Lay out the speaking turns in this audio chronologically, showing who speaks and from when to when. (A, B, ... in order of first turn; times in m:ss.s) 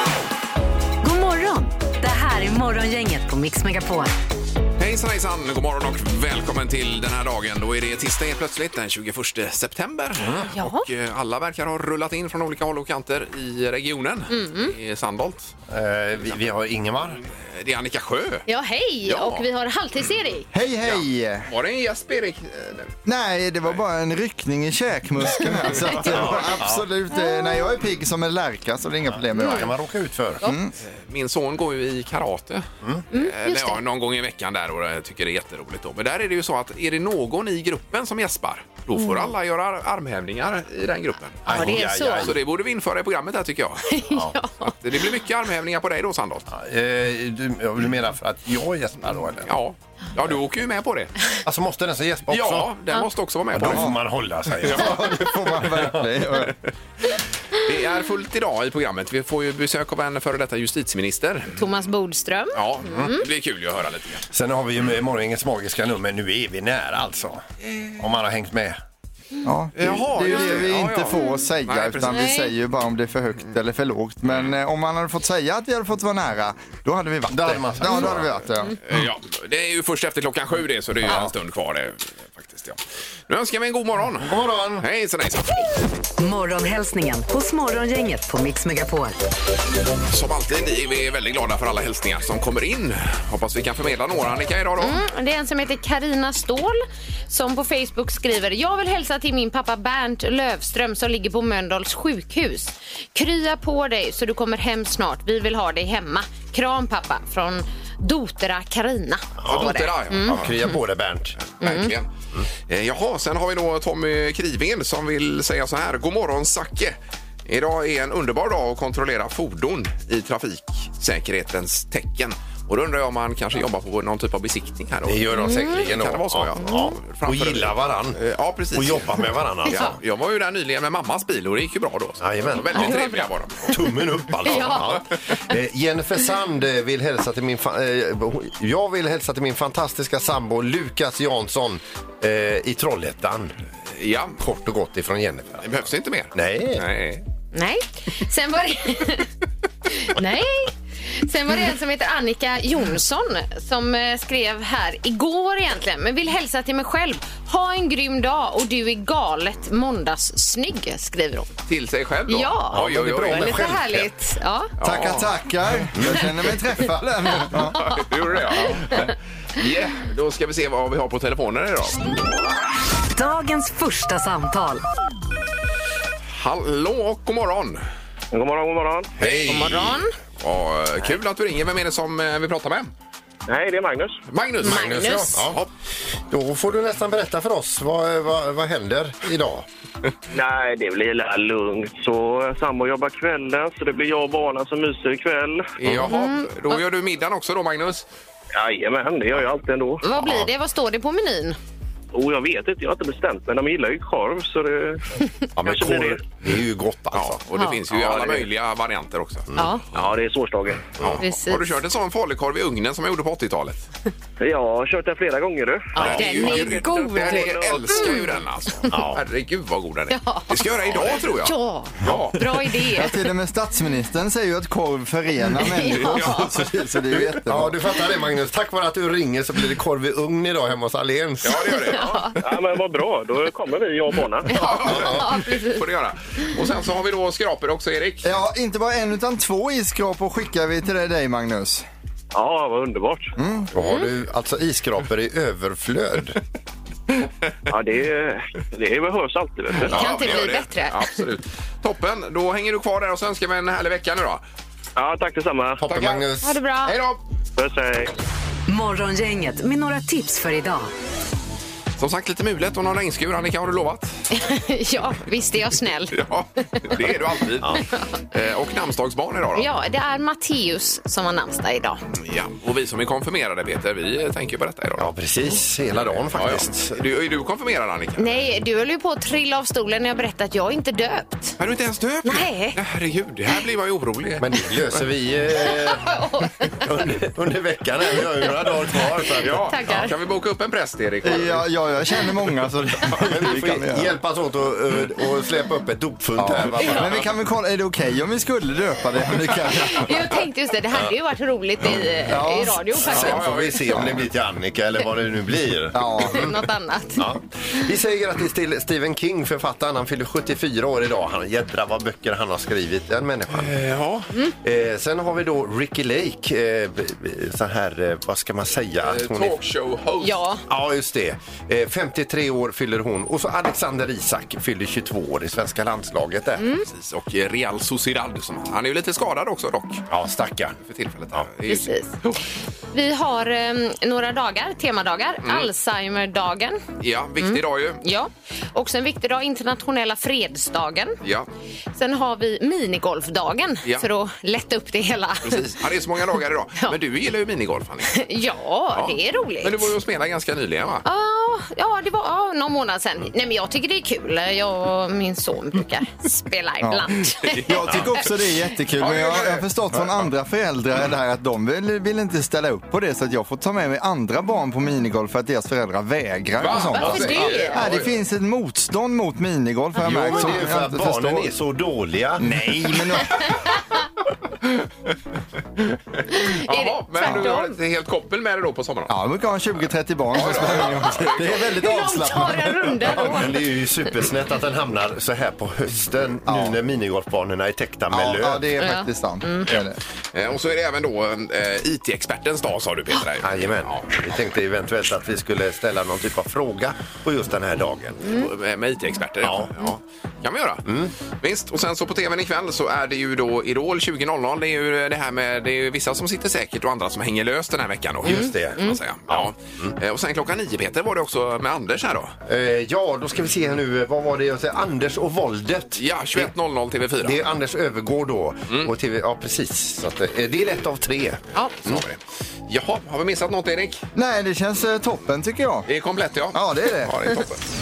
0:01.0-0:04.1 A
0:04.8-0:15.5 B
0:10.5-0:10.9 C
0:14.3-0:14.7 C
0:15.7-0:17.2 D
0:17.3-0:18.5 B
0:18.5-0:20.5 C
0:19.0-0:19.5 B
0:20.5-0:21.5 E
0:20.8-0:22.9 B
0:23.0-0:29.7 E
0:26.1-0:26.8 D
0:29.3-0:29.6 C
0:29.4-0:30.4 D
0:30.4-0:30.7 E
0:30.8-0:44.0 B
0:33.1-0:33.8 C
0:39.0-0:39.3 C
0:41.4-0:42.4 D
0:41.5-0:42.3 C
0:43.9-0:44.8 C
0:44.1-0:44.3 D
0:44.6-0:46.5 B
0:46.5-0:49.5 D
0:49.1-0:51.1 B
0:51.4-0:52.7 D
0:52.3-0:54.0 B
0:53.5-0:56.0 D
0:53.6-0:53.9 E
0:54.6-0:56.5 E
0:57.5-1:01.6 B
1:01.5-1:03.2 C
1:02.5-1:04.2 B
1:04.3-1:07.4 D
1:08.0-1:08.8 D
1:09.4-1:18.8 E
1:09.8-1:12.2 B
1:12.1-1:12.5 C
1:17.4-1:18.4 D
1:18.8-1:25.8 B
1:21.0-1:21.3 D
1:24.1-1:24.8 D
1:26.2-1:29.2 A
1:30.1-1:35.0 B
1:34.8-1:50.4 C
1:49.4-1:51.4 D
1:49.4-1:50.7 B
1:51.4-1:52.1 B
1:51.6-1:51.9 C
1:52.6-2:13.7 B
2:05.0-2:08.2 D
2:05.3-2:05.8 C
2:06.6-2:07.0 C
2:08.7-2:10.0 D
2:12.2-2:13.0 D
2:12.7-2:13.8 C
2:13.7-2:23.5 D
2:14.4-2:15.0 C
2:24.0-2:24.4 B
2:24.4-2:25.7 D
2:25.6-2:27.2 B
2:26.3-2:26.8 D
2:27.5-2:29.3 C
2:29.9-2:41.5 C
2:41.7-2:43.8 B
2:42.3-2:44.7 C
2:42.7-2:44.1 D
2:44.8-2:45.3 B
2:44.8-2:49.1 E
2:45.9-2:46.3 D
2:47.7-2:52.1 B
2:47.8-2:48.0 C
2:48.7-2:49.0 C
2:53.1-2:54.8 A
2:56.3-2:57.8 B
2:58.3-2:59.1 F
2:59.2-3:00.0 D
2:59.2-3:02.9 B
2:59.3-3:00.1 C
3:03.5-3:04.2 F
3:04.3-3:05.7 B
3:04.6-3:05.4 C
3:04.6-3:05.6 D
3:06.3-3:09.6 D
3:10.3-3:15.7 F
3:15.8-3:18.1 B
3:16.0-3:16.8 C
3:18.5-3:20.0 F
3:20.0-3:21.6 C
3:20.1-3:20.5 D
3:22.1-3:25.0 F
3:25.6-3:27.4 D
3:25.6-3:26.2 F
3:27.1-3:29.5 B
3:27.5-3:27.8 C
3:27.9-3:28.4 F
3:29.6-3:29.8 C
3:29.9-3:31.0 F
3:31.0-3:33.8 B
3:31.2-3:31.6 C
3:34.4-3:38.0 F
3:35.9-3:38.9 C
3:36.0-3:36.3 D
3:36.0-3:42.4 B
3:38.9-3:39.2 D
3:40.1-3:40.6 C
3:40.9-3:41.2 D
3:41.3-3:43.1 C
3:42.9-3:47.8 E
3:45.6-3:46.4 C
3:45.9-3:46.5 B
3:47.4-3:51.9 D
3:51.4-3:52.3 B
3:51.6-3:52.4 C
3:52.4-3:54.5 F
3:54.5-3:55.8 C
3:54.5-3:58.3 B
3:54.8-3:55.3 D
3:58.2-4:01.8 E
4:02.3-4:03.3 F
4:03.4-4:03.7 E
4:03.7-4:06.4 D
4:03.8-4:04.1 C
4:07.7-4:10.0 F
4:09.8-4:14.4 B
4:09.9-4:11.1 C
4:15.0-4:15.8 F
4:15.8-4:16.5 D
4:15.8-4:16.3 B
4:16.4-4:17.0 C
4:16.8-4:17.2 B
4:17.6-4:18.1 F
4:18.7-4:20.9 A
4:22.0-4:24.1 B
4:24.3-4:26.2 C
4:26.1-4:29.7 B
4:27.8-4:28.1 C
4:29.6-4:32.0 C
4:32.1-4:35.1 B
4:35.0-4:37.0 D
4:36.0-4:38.4 B
4:38.2-4:41.6 C
4:41.6-4:45.0 B
4:42.2-4:42.8 C
4:44.4-4:46.2 D
4:45.6-4:46.9 C
4:46.8-4:49.8 D
4:49.4-4:51.6 B
4:49.5-4:50.1 C
4:51.2-4:54.2 E
4:53.2-4:57.2 D
4:56.4-5:00.3 E
4:59.7-5:03.5 C
5:02.3-5:03.0 E
5:03.0-5:06.5 D
5:03.0-5:04.3 B
5:05.9-5:06.5 E
5:06.3-5:07.2 C
5:07.2-5:13.9 D
5:13.6-5:14.3 B
5:14.6-5:19.6 D
5:19.0-5:20.4 B
5:20.2-5:20.6 C
5:20.7-5:26.6 D
5:26.6-5:26.8 C
5:26.9-5:30.0 B
5:30.1-5:30.8 D
5:30.8-5:32.4 B
5:31.6-5:32.1 C
5:32.9-5:36.8 C
5:35.4-5:35.7 B
5:37.0-5:38.0 B
5:37.4-5:41.2 C
5:41.2-5:41.5 B
5:41.9-5:45.7 C
5:45.4-5:48.2 B
5:48.1-5:49.9 C
5:48.9-5:51.0 B
5:51.0-5:58.2 C
5:56.8-6:11.5 E
5:57.4-5:58.2 B
5:59.0-6:00.1 B
6:06.6-6:08.1 B
6:07.0-6:07.8 C
6:07.0-6:07.7 D
6:10.0-6:12.5 D
6:12.4-6:13.5 E
6:15.8-6:19.1 B
6:16.3-6:17.8 C
6:19.1-6:23.4 E
6:20.3-6:21.7 B
6:21.8-6:23.5 C
6:23.0-6:28.7 D
6:26.4-6:26.8 E
6:28.1-6:30.0 E
6:28.8-6:29.7 C
6:30.3-6:34.2 B
6:33.4-6:38.4 D
6:38.2-6:40.9 B
6:39.4-6:39.7 D
6:40.8-6:41.1 D
6:41.4-6:52.3 B
6:48.2-6:49.9 D
6:48.4-6:49.0 C
6:52.4-6:56.5 D
6:56.0-6:57.4 B
6:57.2-7:02.0 D
7:01.8-7:04.0 B
7:04.1-7:05.9 E
7:05.9-7:07.6 B
7:06.5-7:07.4 E